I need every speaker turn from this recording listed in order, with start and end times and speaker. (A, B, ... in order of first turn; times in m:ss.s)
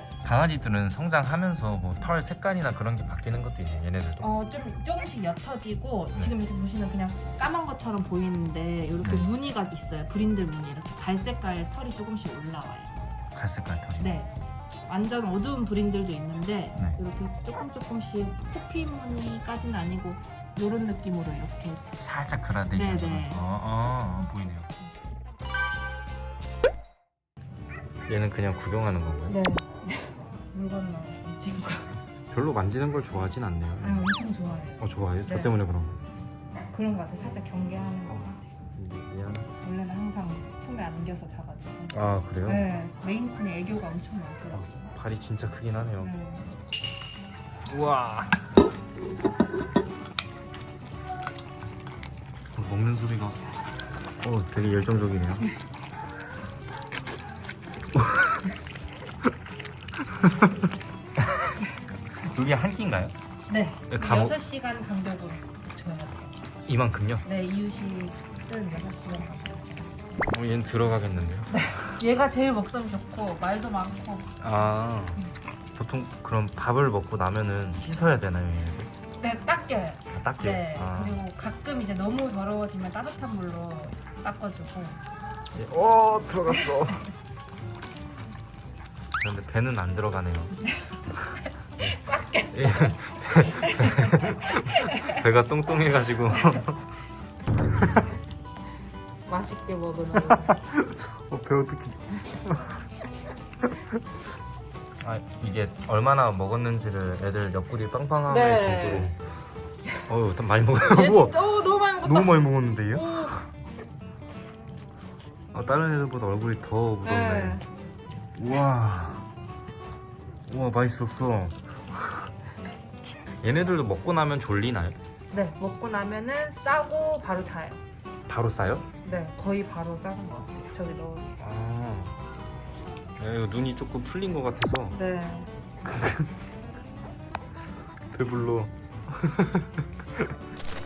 0:00.2-0:04.3 A
0:04.2-0:13.0 B
0:09.0-0:09.3 A
0:13.3-0:14.2 A
0:14.0-0:14.3 B
0:14.9-0:21.8 B
0:22.0-0:24.7 A
0:22.7-0:23.4 B
0:28.1-0:29.4 A
0:29.3-0:31.9 B
0:32.3-0:34.1 A
0:33.8-0:35.5 B
0:34.8-0:36.0 A
0:36.7-0:38.4 B
0:38.1-0:39.5 A
0:39.6-0:44.9 B
0:41.9-0:42.7 A
0:44.5-0:46.1 A
0:46.0-0:46.6 B
0:47.7-0:48.4 A
0:52.5-0:53.4 A
0:54.2-0:55.5 A
0:58.0-0:58.3 A
1:00.2-1:00.5 A
1:01.2-1:01.6 A
1:02.2-1:03.1 A
1:03.5-1:06.3 B
1:03.9-1:04.4 A
1:06.7-1:07.2 A
1:07.2-1:09.9 B
1:10.3-1:11.7 A
1:11.5-1:14.3 B
1:14.4-1:18.9 A
1:19.2-1:25.0 B
1:20.1-1:21.2 A
1:25.5-1:27.0 A
1:29.2-1:30.6 A
1:31.1-1:32.0 A
1:31.4-1:35.2 B
1:32.5-1:36.8 A
1:37.6-1:38.2 A
1:39.3-1:40.6 B
1:40.1-1:42.8 A
1:45.0-1:49.2 A
1:48.3-1:49.2 B
1:50.1-1:53.4 A
1:50.8-1:53.4 B
1:55.5-1:57.6 A
1:57.0-1:57.6 B
1:58.4-1:59.3 A
2:00.5-2:02.1 A
2:03.4-2:05.0 A
2:05.3-2:07.8 B
2:08.3-2:08.8 A
2:09.0-2:11.4 B
2:11.4-2:12.2 A
2:13.2-2:15.0 A
2:14.9-2:15.5 B
2:15.8-2:16.3 A
2:18.1-2:20.3 A